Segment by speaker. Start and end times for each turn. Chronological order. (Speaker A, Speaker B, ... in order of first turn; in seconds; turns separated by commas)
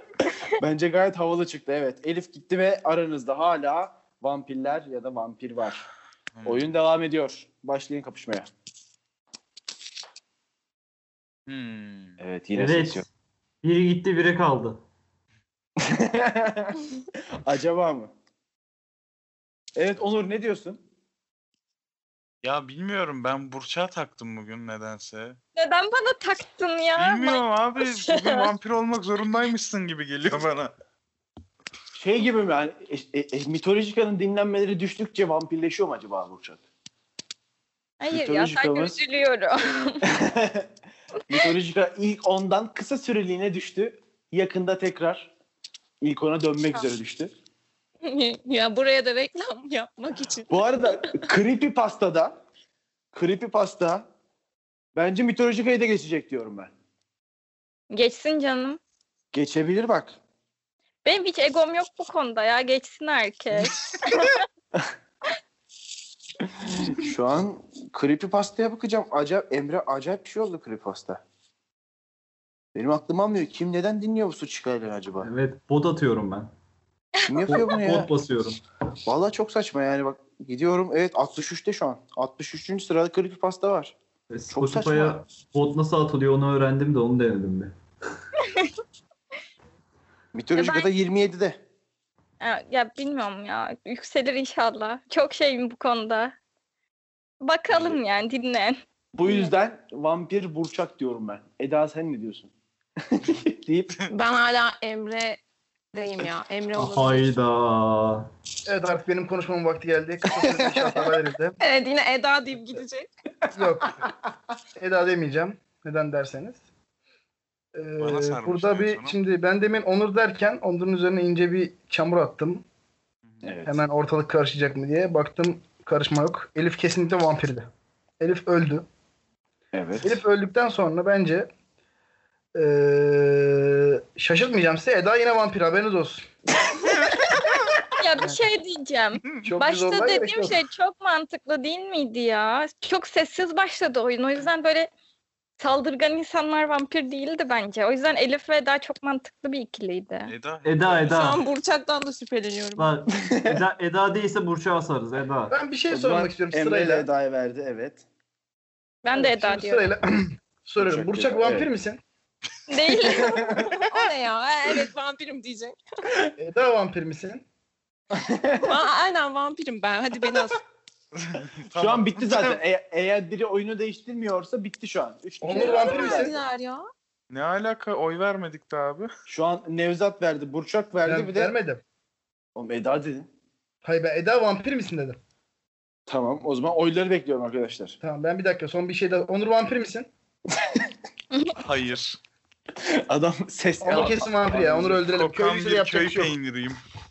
Speaker A: 0.6-5.9, Speaker B: 6.3-6.7, Speaker A: 6.5-8.5, Speaker B: 11.5-12.2, Speaker A: 12.2-13.1, Speaker C: 12.6-13.1, Speaker C: 13.6-14.8, Speaker A: 15.8-16.8, Speaker A: 17.4-18.1, Speaker A: 19.8-20.8, Speaker B: 22.4-25.4, Speaker D: 25.6-28.5, Speaker B: 27.0-30.7, Speaker A: 31.9-36.6, Speaker D: 38.0-40.1, Speaker A: 38.1-39.0, Speaker A: 40.0-40.7, Speaker A: 41.3-45.3, Speaker A: 46.0-47.3, Speaker E: 48.0-51.3, Speaker A: 50.5-52.4, Speaker A: 53.1-54.1, Speaker A: 55.0-56.7, Speaker D: 57.9-58.8, Speaker A: 59.3-60.2, Speaker D: 61.0-64.4, Speaker A: 66.6-71.2, Speaker A: 72.8-75.3, Speaker C: 75.2-76.5, Speaker A: 77.2-78.1, Speaker C: 77.5-78.6, Speaker A: 79.1-84.0, Speaker C: 84.3-87.7, Speaker A: 84.5-85.2, Speaker D: 88.4-88.7, Speaker A: 90.3-91.6, Speaker D: 90.6-90.9, Speaker D: 92.4-96.3, Speaker D: 97.4-98.8, Speaker B: 97.7-98.0, Speaker A: 99.2-102.5, Speaker A: 103.0-104.0, Speaker E: 104.1-105.4, Speaker E: 105.9-107.3, Speaker C: 106.8-108.3, Speaker F: 108.7-111.6, Speaker A: 110.5-111.1, Speaker E: 111.6-113.1, Speaker A: 113.5-114.1, Speaker F: 113.5-114.1, Speaker F: 114.8-116.6, Speaker F: 117.7-122.6, Speaker B: 118.0-119.2, Speaker A: 123.4-123.8, Speaker F: 123.7-127.7, Speaker F: 128.2-128.9, Speaker A: 129.7-130.2, Speaker F: 130.0-131.5, Speaker F: 132.6-136.3, Speaker D: 138.0-144.9, Speaker B: 139.2-139.5, Speaker F: 139.4-140.6, Speaker D: 145.6-150.3, Speaker B: 150.3-151.2, Speaker C: 150.7-151.4, Speaker E: 151.1-152.9, Speaker C: 152.8-155.5, Speaker A: 153.2-153.6, Speaker F: 155.5-157.1, Speaker A: 155.9-158.0, Speaker D: 159.0-159.9, Speaker F: 159.1-162.0, Speaker A: 160.8-161.7, Speaker D: 162.7-163.8, Speaker A: 163.1-163.6, Speaker E: 163.9-165.8, Speaker F: 166.4-167.4, Speaker A: 168.1-168.8, Speaker E: 168.6-170.6, Speaker B: 171.2-172.6, Speaker A: 171.8-176.4, Speaker F: 175.4-176.3, Speaker E: 175.5-176.9, Speaker B: 177.3-179.1, Speaker A: 179.3-181.6, Speaker F: 181.1-181.8, Speaker A: 182.6-183.3, Speaker F: 183.8-185.2, Speaker A: 186.1-188.0, Speaker F: 188.0-190.1, Speaker A: 190.6-190.9, Speaker B: 191.6-192.2, Speaker A: 192.8-195.0, Speaker F: 193.8-196.4, Speaker B: 195.1-196.8